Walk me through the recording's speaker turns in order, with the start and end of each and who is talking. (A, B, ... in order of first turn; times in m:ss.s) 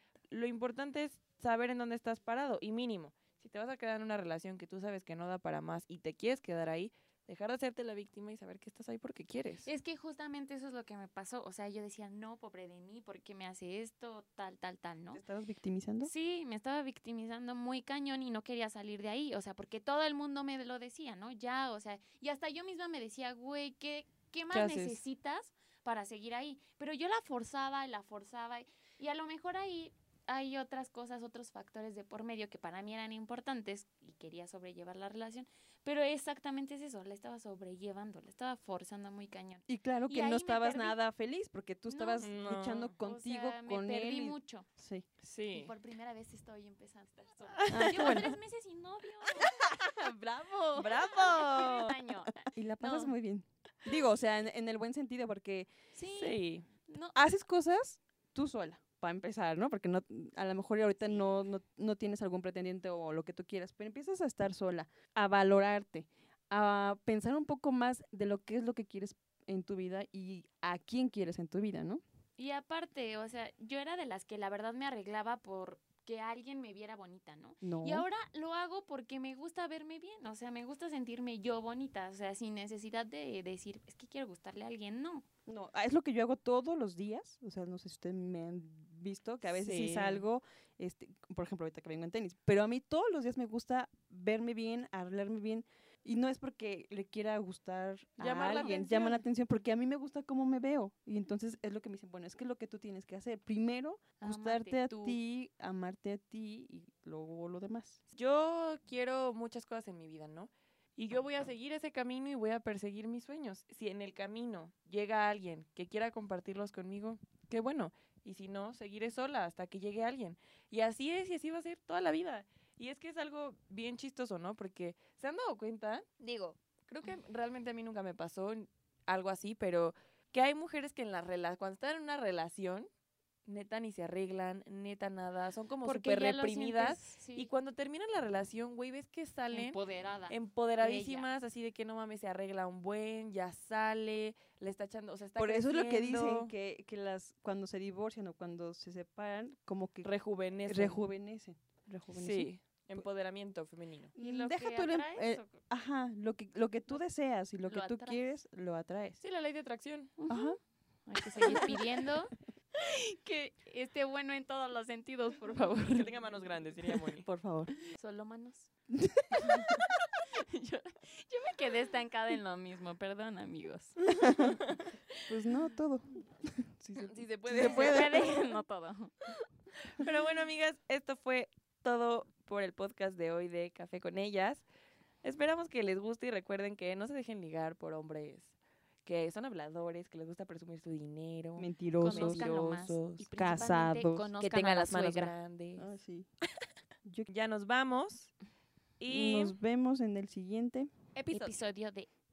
0:00.3-0:09.7 A
0:09.6-0:15.2 B
0:15.1-0:16.1 C
0:16.0-0:41.0 B
0:24.5-0:24.9 A
0:39.7-0:45.1 C
0:41.9-0:42.4 B
0:42.2-0:42.9 A
0:43.0-0:44.7 B
0:45.2-0:45.7 A
0:45.5-0:49.7 B
0:47.6-0:48.2 A
0:47.7-0:48.3 C
0:49.3-0:51.3 C
0:50.7-0:52.0 A
0:50.8-0:53.1 B
0:52.4-0:55.7 C
0:56.0-0:57.2 B
0:56.1-0:56.7 A
0:57.1-1:12.0 C
1:01.0-1:01.3 B
1:12.4-1:25.2 B
1:17.6-1:18.1 C
1:25.5-1:48.0 C
1:29.5-1:30.2 A
1:38.2-1:39.2 A
1:38.4-1:39.0 B
1:44.2-1:45.2 B
1:48.1-2:12.9 A
2:13.4-2:26.5 A
2:15.8-2:17.5 B
2:19.5-2:21.3 B
2:25.4-2:30.1 C
2:30.0-2:31.0 A
2:30.6-2:33.0 C
2:32.1-2:34.1 A
2:34.2-2:39.2 C
2:34.2-2:35.6 B
2:37.7-2:38.3 B
2:39.2-2:40.2 A
2:40.2-2:46.2 B
2:40.3-2:40.6 C
2:41.4-2:41.8 C
2:45.8-2:47.3 A
2:47.2-2:47.7 C
2:47.9-2:48.7 B
2:49.0-2:49.8 C
2:49.3-2:54.5 B
2:54.2-2:54.6 C
2:54.6-2:54.8 A
2:55.3-2:58.4 C
2:57.0-2:58.4 A
2:57.5-2:59.1 B
2:59.9-3:04.6 A
3:05.2-3:13.0 A
3:11.6-3:14.3 C
3:12.0-3:15.3 B
3:14.4-3:15.9 A
3:15.8-3:16.3 C
3:17.3-3:18.3 A
3:19.0-3:19.6 A
3:19.1-3:20.9 C
3:21.2-3:21.6 A
3:21.3-3:22.1 B